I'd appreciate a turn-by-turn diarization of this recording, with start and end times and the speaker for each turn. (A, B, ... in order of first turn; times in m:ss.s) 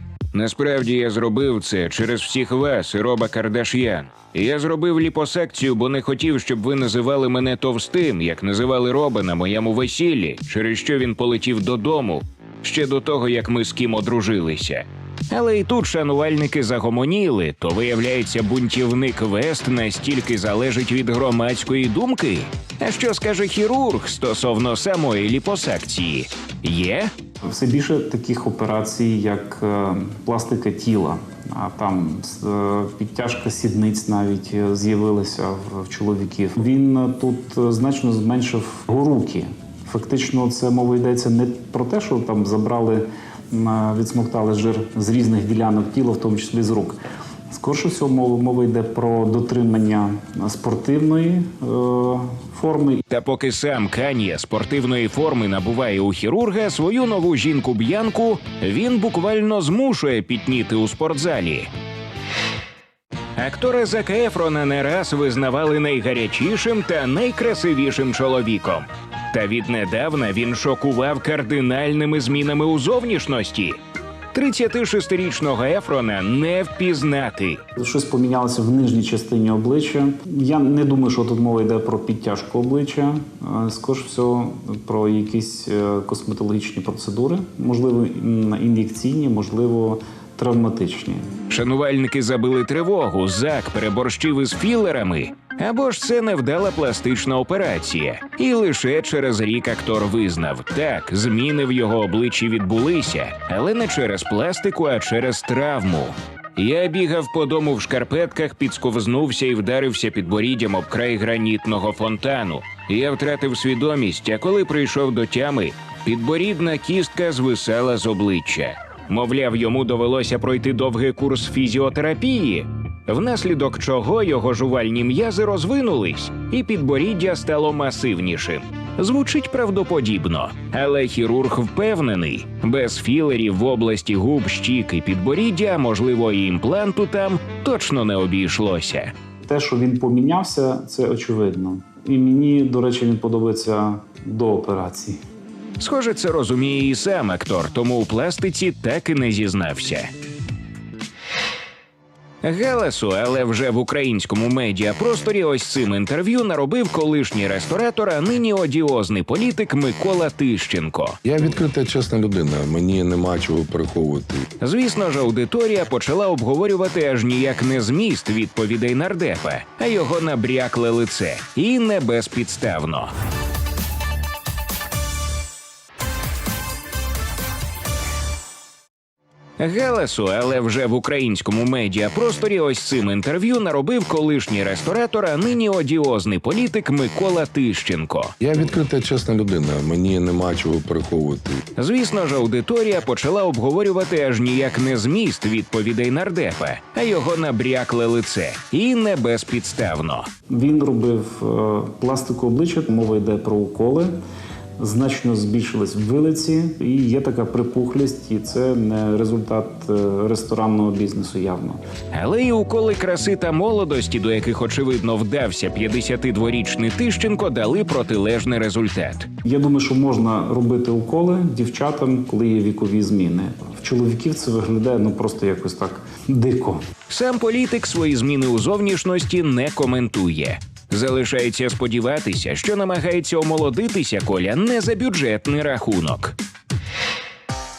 0:00.3-0:27.1 A
0:27.5-0:47.0 B
0:47.5-0:53.0 B
0:53.1-1:01.7 A
1:03.4-1:13.8 A
1:14.3-1:17.6 A
1:17.8-1:31.3 B
1:31.5-2:19.1 A
2:19.5-2:25.2 B
2:25.8-2:30.1 A
2:32.4-2:41.2 A
2:41.2-2:44.5 C
2:44.6-2:53.1 A
2:59.6-3:08.4 A
3:08.4-3:11.6 C
3:11.8-3:20.3 A
3:20.5-3:24.1 B
3:24.8-3:31.8 B
3:32.1-3:39.3 A
3:39.4-3:46.8 B
3:47.1-3:56.4 A